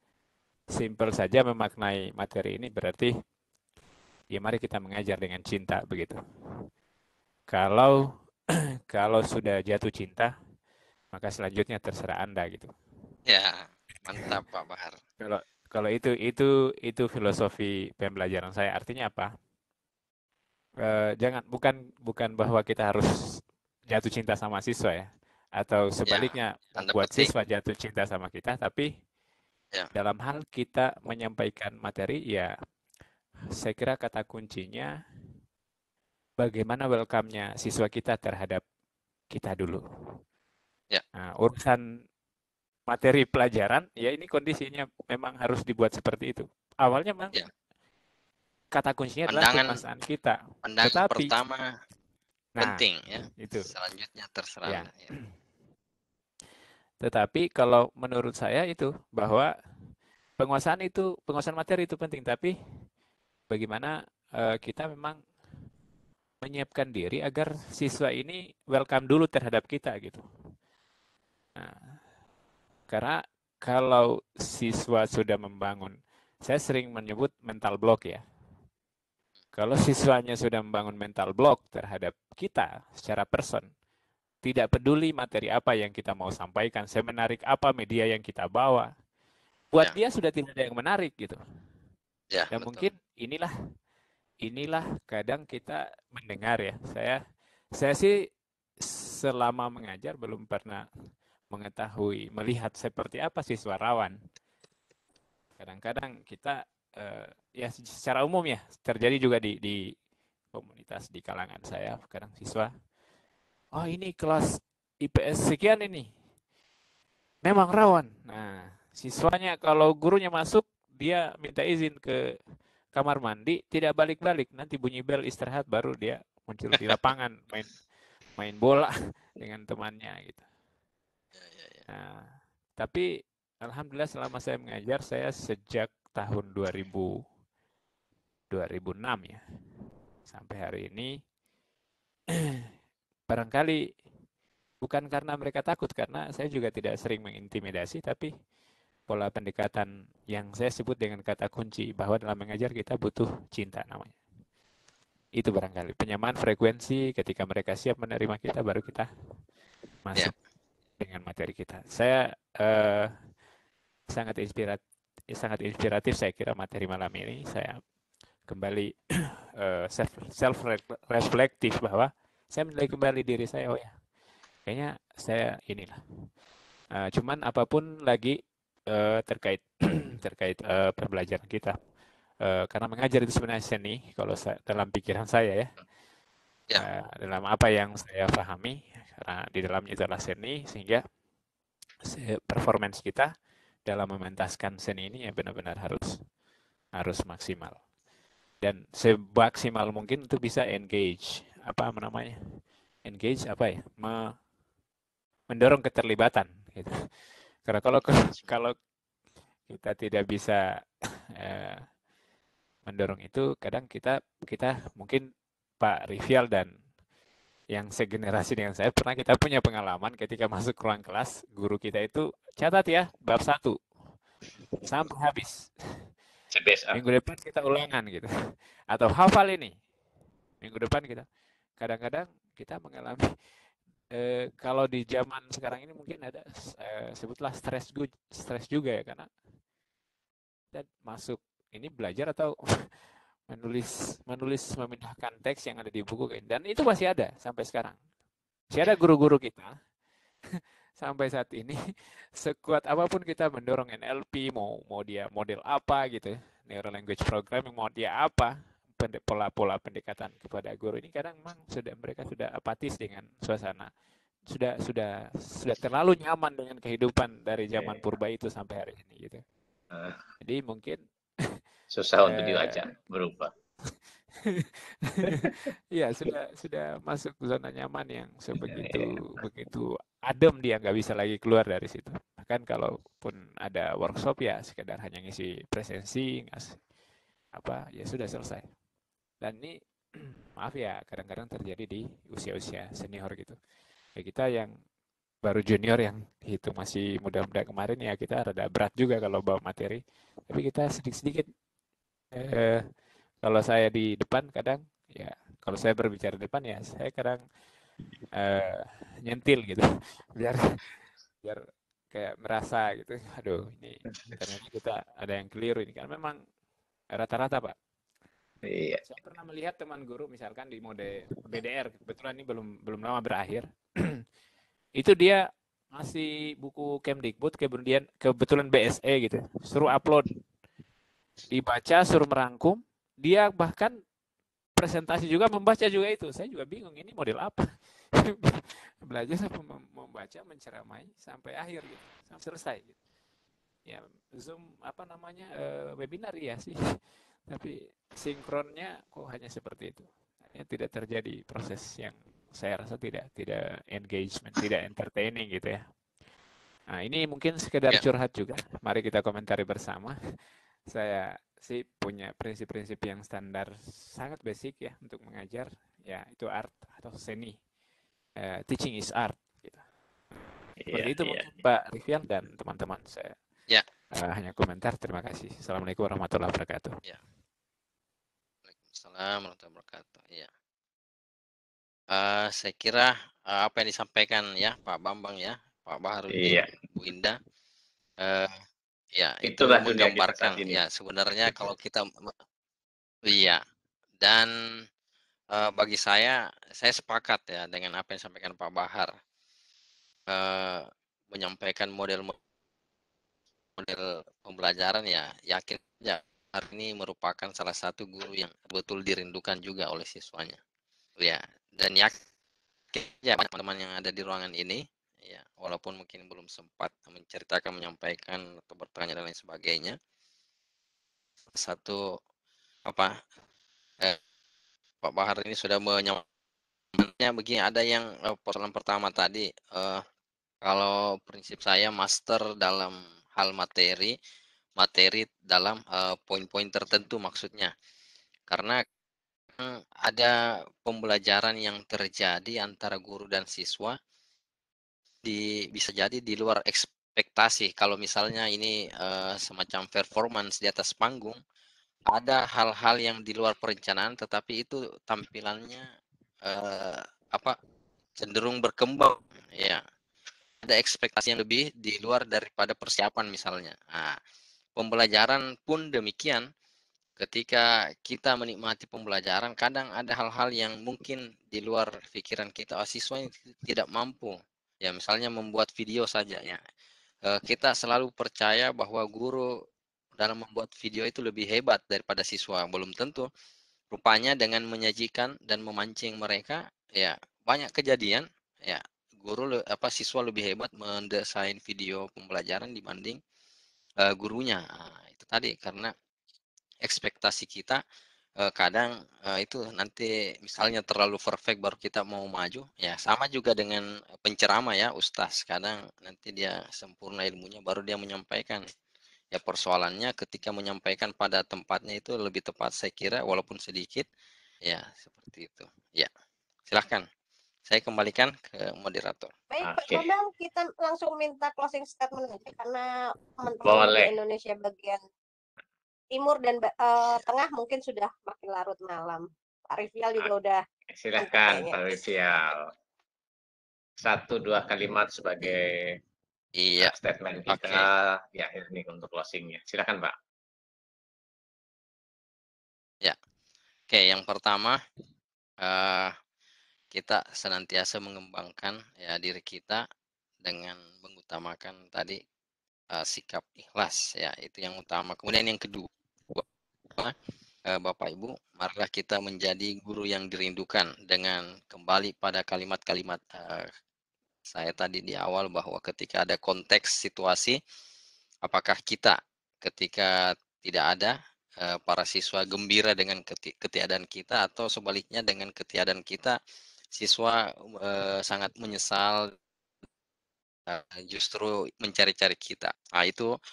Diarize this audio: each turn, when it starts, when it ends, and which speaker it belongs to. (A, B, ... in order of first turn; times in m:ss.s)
0:00.7-0:03.1 A
0:04.3-0:06.2 A
0:07.5-0:08.0 A
0:08.9-0:10.3 A
0:11.1-0:12.7 A
0:13.3-0:15.0 B
0:15.2-0:19.3 A
0:20.8-0:23.1 A
0:23.9-0:28.9 A
0:26.0-0:27.3 B
0:29.9-0:32.5 A
0:33.6-0:34.9 A
0:36.4-0:38.6 A
0:39.3-0:39.8 A
0:41.2-0:41.8 A
0:42.9-0:47.4 A
0:48.7-0:51.3 A
0:49.2-0:49.8 B
0:50.6-0:51.6 B
0:52.6-0:52.8 A
0:52.6-0:55.1 B
0:53.4-0:53.7 A
0:57.0-0:59.5 A
1:00.4-1:02.5 A
1:03.5-1:05.2 A
1:06.4-1:10.2 A
1:11.6-1:12.0 A
1:12.9-1:18.2 A
1:19.5-1:23.7 A
1:24.4-1:28.9 A
1:29.7-1:31.4 A
1:32.3-1:32.9 B
1:32.5-1:33.5 A
1:34.4-1:37.2 A
1:37.8-1:38.1 A
1:38.8-1:40.8 A
1:41.5-1:44.2 A
1:45.6-1:49.9 A
1:50.5-1:52.7 A
1:53.7-1:56.1 A
1:57.4-2:02.2 A
2:02.9-2:07.7 A
2:08.4-2:10.4 A
2:11.4-2:11.8 B
2:11.9-2:13.0 A
2:13.6-2:17.1 A
2:18.5-2:19.4 A
2:20.2-2:21.1 A
2:23.3-2:23.8 A
2:24.8-2:28.3 A
2:29.1-2:34.2 A
2:35.4-2:39.1 A
2:40.0-2:40.3 A
2:41.0-2:43.1 A
2:44.1-2:47.8 A
2:48.5-2:48.9 A
2:49.6-2:53.9 A
2:54.6-2:56.0 A
2:57.0-2:58.4 A
2:58.9-2:59.7 A
3:00.2-3:01.7 A
3:02.4-3:05.7 A
3:06.8-3:11.0 A
3:12.0-3:13.3 A
3:13.8-3:16.2 A
3:16.9-3:17.8 A
3:18.6-3:22.3 A
3:23.0-3:24.3 A
3:25.5-3:26.9 A
3:27.6-3:28.7 A
3:29.7-3:30.6 A
3:31.4-3:31.8 A
3:32.8-3:35.2 A
3:35.8-3:36.7 A
3:37.7-3:43.8 A
3:44.8-3:45.7 A
3:46.5-3:47.0 C
3:46.9-3:48.3 A
3:48.9-3:49.7 A
3:50.6-3:51.2 A
3:51.8-3:53.3 A
3:54.1-3:59.3 A
4:00.7-4:02.6 A
4:03.5-4:08.0 A
4:08.7-4:09.8 A
4:11.0-4:11.8 A
4:12.4-4:23.9 A
4:24.5-4:29.4 A
4:27.8-4:28.0 C
4:29.9-4:30.2 C
4:30.4-4:31.0 A
4:31.9-4:33.5 C
4:32.2-4:32.8 A
4:34.4-4:46.8 A
4:38.5-4:39.4 C
4:47.5-4:48.6 A
4:49.4-4:49.8 A
4:50.6-4:53.6 A
4:54.2-4:54.7 A
4:55.4-5:01.5 A
5:02.3-5:02.8 A
5:03.4-5:07.4 A
5:08.3-5:09.8 A
5:11.4-5:16.4 A
5:17.1-5:17.7 A
5:18.6-5:19.0 C
5:19.0-5:24.0 A
5:25.0-5:25.4 A
5:25.9-5:30.3 A
5:31.5-5:33.9 A
5:34.8-5:43.0 A
5:43.8-5:46.8 A
5:47.5-5:55.8 A
5:56.9-6:00.1 A
6:00.9-6:07.6 A
6:08.4-6:10.4 A
6:10.8-6:11.5 C
6:10.9-6:13.4 A
6:14.1-6:16.9 A
6:18.6-6:20.5 B
6:22.1-6:27.4 B
6:26.3-6:26.7 C
6:28.2-6:28.5 B
6:29.2-6:32.3 B
6:29.4-6:30.8 C
6:33.3-6:33.6 B
6:34.2-6:34.5 B
6:35.5-6:39.1 B
6:40.3-6:42.4 B
6:43.8-6:50.6 B
6:51.2-6:52.1 B
6:52.9-7:00.0 B
7:01.5-7:02.0 B
7:02.9-7:03.1 B
7:05.0-7:06.2 B
7:07.0-7:10.0 B
7:10.6-7:14.1 B
7:14.8-7:17.7 B
7:18.5-7:18.8 B
7:19.6-7:23.9 B
7:25.2-7:31.4 B
7:32.1-7:35.9 B
7:36.4-7:37.5 B
7:38.2-7:39.8 B
7:40.6-7:44.2 B
7:44.8-7:46.4 B
7:47.2-7:56.6 B
7:57.3-7:59.5 B
8:00.2-8:03.3 B
8:03.9-8:13.2 B
8:14.0-8:15.9 B
8:16.8-8:17.8 B
8:18.4-8:28.6 B
8:29.3-8:34.1 B
8:34.6-8:36.1 B
8:36.7-8:37.0 B
8:37.7-8:39.3 B
8:39.5-8:42.9 D
8:39.6-8:40.1 C
8:43.4-8:45.0 D
8:43.6-8:44.1 C
8:46.1-8:50.6 D
8:50.9-8:52.6 C
8:51.2-8:51.9 D
8:54.0-8:55.9 C
8:56.6-8:56.9 B
8:56.8-9:00.1 C
8:57.5-8:57.9 B
9:03.9-9:04.8 B
9:05.6-9:06.1 B
9:06.9-9:09.8 B
9:10.4-9:12.2 B
9:12.9-9:16.4 B
9:17.7-9:23.7 B
9:24.5-9:27.6 B
9:28.4-9:36.4 B
9:37.0-9:39.3 B
9:40.7-9:43.3 B